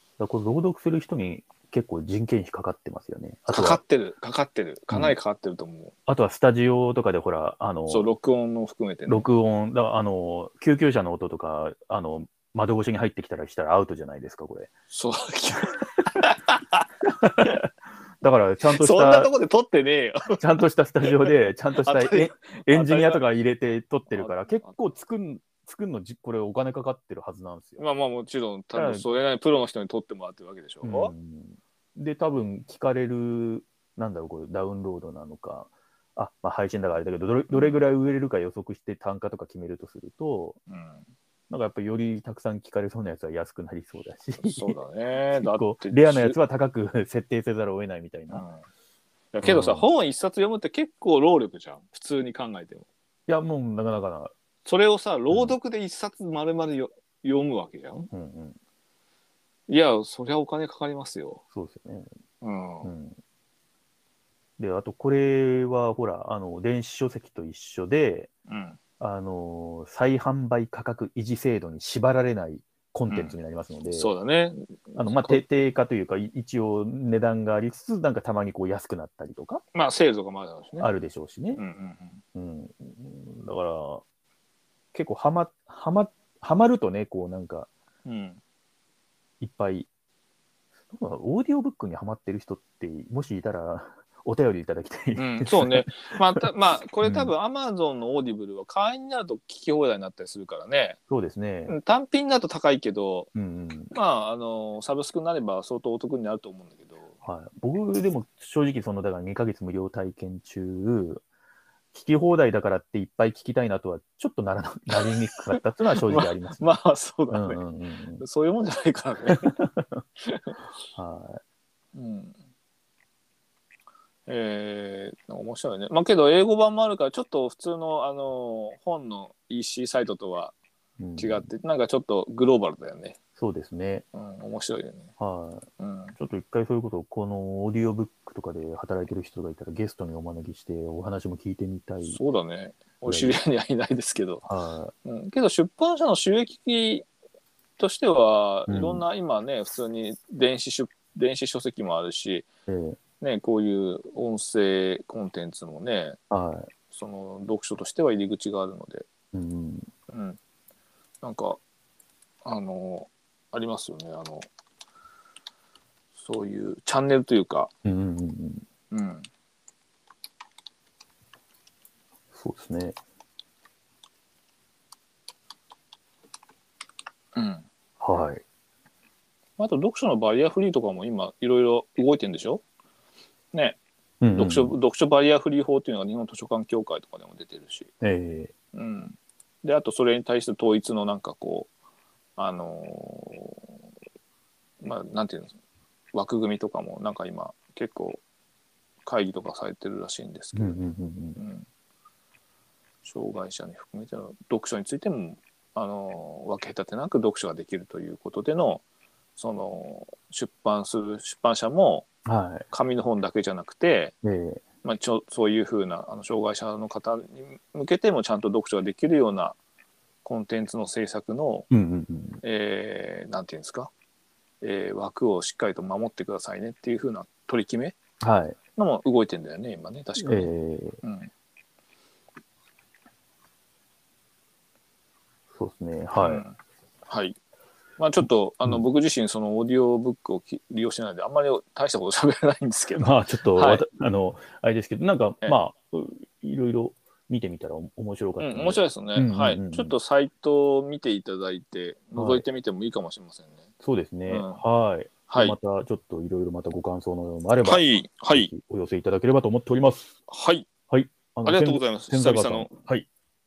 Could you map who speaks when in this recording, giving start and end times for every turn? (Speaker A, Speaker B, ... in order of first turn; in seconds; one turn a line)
Speaker A: 0.2-3.8
Speaker B: 3.5-5.9
Speaker A: 4.9-5.1
Speaker A: 6.1-8.1
Speaker B: 7.9-9.3
Speaker A: 9.1-14.7
Speaker B: 14.9-17.6
Speaker A: 17.1-17.7
Speaker A: 18.2-19.3
Speaker B: 18.7-20.4
Speaker A: 20.4-27.8
Speaker B: 21.1-23.2
Speaker B: 24.1-24.7
Speaker B: 27.8-31.1
Speaker A: 28.7-29.0
Speaker A: 30.8-40.6
Speaker B: 37.5-37.8
Speaker B: 40.7-41.1
Speaker A: 41.5-44.8
Speaker B: 44.4-46.4
Speaker A: 45.3-48.4
Speaker B: 48.3-48.6
Speaker B: 49.3-52.9
Speaker A: 49.4-49.9
Speaker A: 53.3-54.3
Speaker B: 54.6-58.0
Speaker A: 55.3-55.5
Speaker A: 57.9-58.6
Speaker B: 59.7-61.4
Speaker A: 61.5-62.1
Speaker B: 62.4-62.9
Speaker A: 62.8-63.2
Speaker A: 64.6-68.3
Speaker B: 68.5-68.8
Speaker A: 69.0-74.1
Speaker B: 73.1-73.4
Speaker B: 73.9-75.4
Speaker A: 75.0-79.6
Speaker B: 79.7-80.9
Speaker A: 80.8-81.6
Speaker B: 81.5-82.2
Speaker A: 82.3-84.0
Speaker A: 84.9-87.7
Speaker B: 88.0-88.4
Speaker A: 89.4-89.9
Speaker A: 90.9-96.4
Speaker B: 95.2-101.0
Speaker A: 97.0-97.3
Speaker A: 101.1-101.8
Speaker B: 101.7-103.3
Speaker A: 103.3-103.9
Speaker B: 103.9-107.1
Speaker A: 107.2-111.2
Speaker A: 111.9-116.7
Speaker B: 114.9-117.6
Speaker A: 117.3-118.2
Speaker B: 118.2-119.5
Speaker A: 119.3-120.0
Speaker B: 120.2-120.6
Speaker A: 120.9-121.4
Speaker B: 121.9-122.4
Speaker B: 124.3-130.5
Speaker A: 131.0-131.5
Speaker B: 131.2-133.2
Speaker A: 133.4-134.0
Speaker B: 134.1-135.1
Speaker A: 135.2-135.7
Speaker B: 135.8-136.1
Speaker A: 136.2-142.2
Speaker B: 142.1-144.4
Speaker A: 143.1-143.4
Speaker A: 144.4-144.9
Speaker B: 145.0-147.1
Speaker B: 147.8-152.5
Speaker A: 148.7-149.0
Speaker A: 152.7-153.0
Speaker B: 153.2-156.2
Speaker A: 156.3-156.7
Speaker B: 156.9-159.0
Speaker A: 159.3-159.9
Speaker B: 160.1-160.4
Speaker B: 161.2-161.6
Speaker B: 162.4-164.5
Speaker B: 166.2-167.7
Speaker A: 167.8-168.6
Speaker B: 168.9-169.3
Speaker A: 172.3-172.9
Speaker B: 177.3-177.7
Speaker A: 178.0-178.4
Speaker B: 179.6-182.6
Speaker B: 183.5-183.8
Speaker A: 184.2-184.7
Speaker B: 184.3-187.9
Speaker A: 188.0-188.5
Speaker B: 188.7-191.7
Speaker B: 192.4-193.7
Speaker B: 194.8-195.5
Speaker B: 196.1-198.2
Speaker B: 199.0-201.7
Speaker A: 200.5-201.4
Speaker B: 203.0-208.8
Speaker B: 209.4-212.1
Speaker A: 212.2-212.7
Speaker B: 212.7-214.1
Speaker A: 214.2-214.6
Speaker B: 214.8-219.6
Speaker B: 220.2-221.7
Speaker A: 221.7-222.4
Speaker B: 222.4-223.9
Speaker B: 224.6-227.9
Speaker A: 228.2-228.6
Speaker B: 228.8-230.5
Speaker A: 230.2-231.0
Speaker B: 231.0-231.3
Speaker A: 235.5-236.4
Speaker B: 236.2-236.6
Speaker B: 237.1-237.3
Speaker B: 238.0-243.8
Speaker A: 243.0-249.9
Speaker B: 248.4-253.7
Speaker A: 252.1-252.4
Speaker A: 253.8-260.1
Speaker B: 254.3-254.6
Speaker B: 255.3-255.6
Speaker B: 257.6-258.5
Speaker B: 260.3-260.6
Speaker A: 260.9-263.1
Speaker B: 261.4-262.7